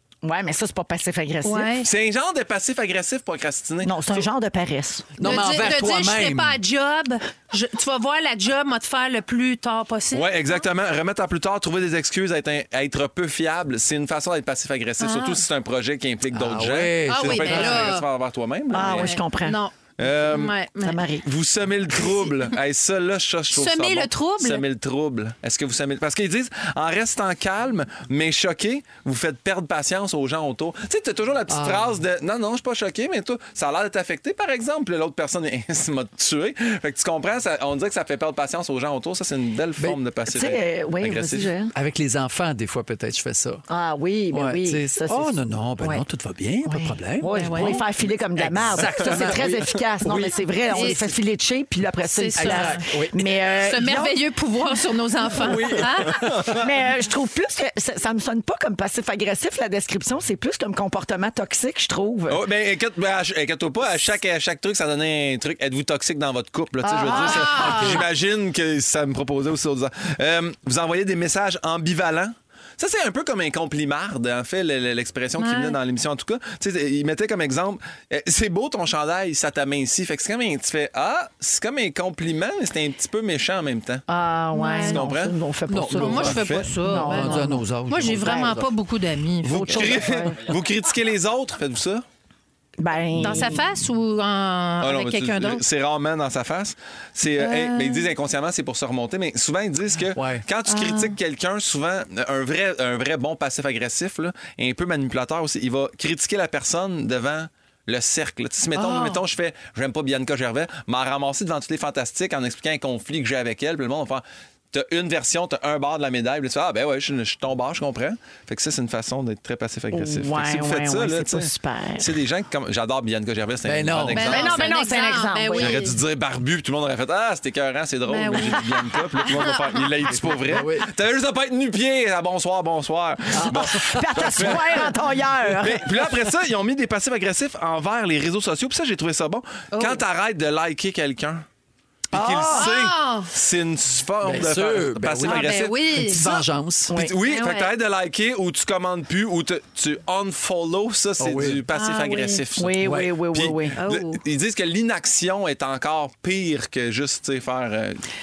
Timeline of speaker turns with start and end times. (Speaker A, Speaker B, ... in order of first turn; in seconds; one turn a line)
Speaker A: 0.2-1.8
Speaker B: 1.4-1.9
Speaker C: 1.8-4.3
Speaker A: 3.8-5.2
Speaker D: 5.2-6.6
Speaker B: 5.2-10.6
Speaker C: 10.1-19.2
Speaker B: 15.0-15.4
Speaker D: 16.3-18.0
Speaker B: 17.1-18.1
Speaker A: 18.7-19.6
Speaker B: 18.8-21.0
Speaker C: 20.0-20.5
Speaker A: 20.8-21.3
Speaker C: 21.2-41.5
Speaker B: 23.5-24.6
Speaker D: 31.5-32.0
Speaker A: 40.3-41.7
Speaker D: 41.7-43.6
Speaker A: 43.7-46.0
Speaker D: 44.3-51.1
Speaker A: 46.6-54.2
Speaker B: 47.3-47.8
Speaker B: 50.7-51.0
Speaker B: 52.0-52.8
Speaker D: 52.4-53.3
Speaker B: 53.5-56.3
Speaker D: 55.3-56.7
Speaker A: 56.5-62.4
Speaker C: 62.3-84.0
Speaker A: 66.8-68.0
Speaker B: 67.1-68.0
Speaker B: 75.4-75.8
Speaker A: 84.1-87.6
Speaker B: 84.5-85.0
Speaker C: 84.8-85.3
Speaker D: 85.7-88.7
Speaker B: 86.0-90.0
Speaker C: 86.0-86.7
Speaker C: 89.4-92.0
Speaker A: 89.5-90.4
Speaker A: 92.8-93.6
Speaker B: 93.2-95.6
Speaker C: 94.8-124.7
Speaker B: 97.4-98.1
Speaker D: 100.1-100.4
Speaker B: 100.7-101.1
Speaker B: 108.7-109.2
Speaker A: 119.9-122.1
Speaker D: 123.6-124.3
Speaker B: 124.1-125.9
Speaker A: 124.2-125.8
Speaker C: 125.5-141.4
Speaker B: 128.1-128.7
Speaker B: 129.2-129.8
Speaker D: 130.5-130.9
Speaker D: 133.3-134.8
Speaker A: 133.5-136.1
Speaker B: 139.7-140.0
Speaker C: 142.1-158.0
Speaker A: 142.1-142.7
Speaker B: 142.5-143.3
Speaker D: 144.2-146.9
Speaker B: 145.2-146.2
Speaker B: 147.2-147.7
Speaker D: 151.2-151.6
Speaker B: 151.7-152.4
Speaker A: 152.6-153.8
Speaker D: 152.8-153.2
Speaker B: 153.8-154.2